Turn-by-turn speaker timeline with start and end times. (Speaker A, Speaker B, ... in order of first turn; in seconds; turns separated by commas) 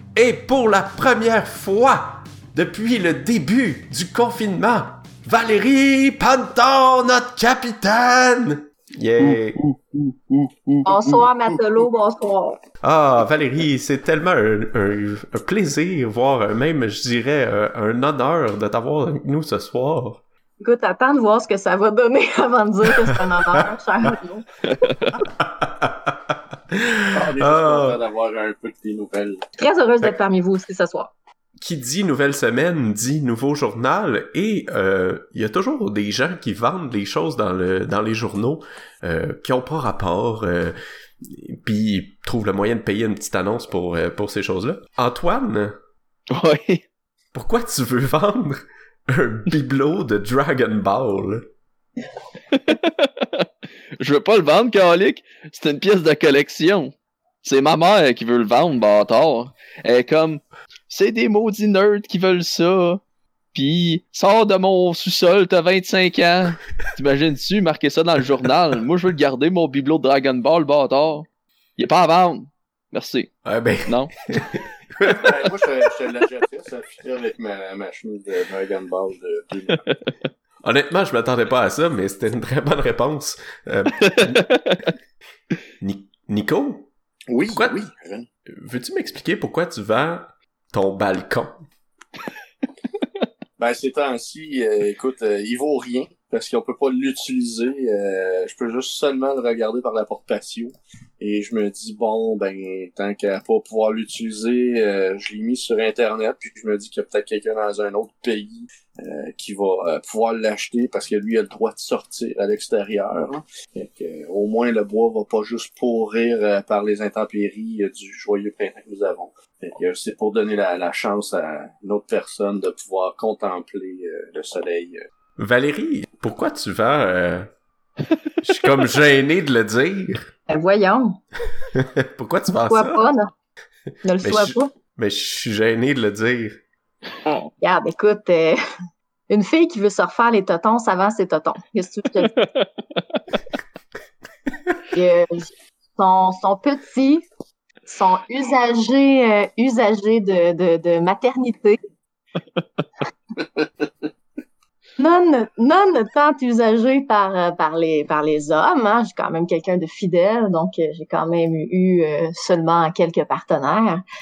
Speaker A: 0.1-9.6, Speaker B: 9.2-11.6, Speaker C: 10.9-12.6, Speaker A: 12.8-20.2, Speaker C: 20.6-24.5, Speaker B: 24.7-25.2, Speaker A: 25.2-28.0, Speaker D: 27.1-29.4, Speaker C: 29.6-31.1, Speaker A: 31.6-45.8, Speaker B: 46.3-46.8, Speaker A: 47.3-51.5, Speaker B: 52.5-53.5, Speaker B: 54.0-63.0, Speaker B: 63.5-73.3, Speaker A: 73.5-75.3, Speaker B: 73.9-74.1, Speaker D: 75.1-79.8, Speaker A: 80.6-84.5, Speaker B: 84.0-84.9, Speaker A: 85.8-86.9, Speaker D: 87.3-88.3, Speaker A: 87.5-87.8, Speaker A: 88.5-91.6, Speaker D: 93.6-125.0, Speaker A: 125.4-127.5, Speaker A: 128.4-130.3, Speaker C: 130.5-131.2, Speaker A: 131.7-133.0, Speaker C: 132.7-133.3, Speaker C: 134.0-134.7, Speaker A: 134.2-136.6, Speaker C: 137.6-138.6, Speaker C: 139.3-142.5, Speaker B: 142.4-143.2, Speaker C: 144.9-147.3, Speaker C: 147.9-151.8, Speaker C: 155.0-164.0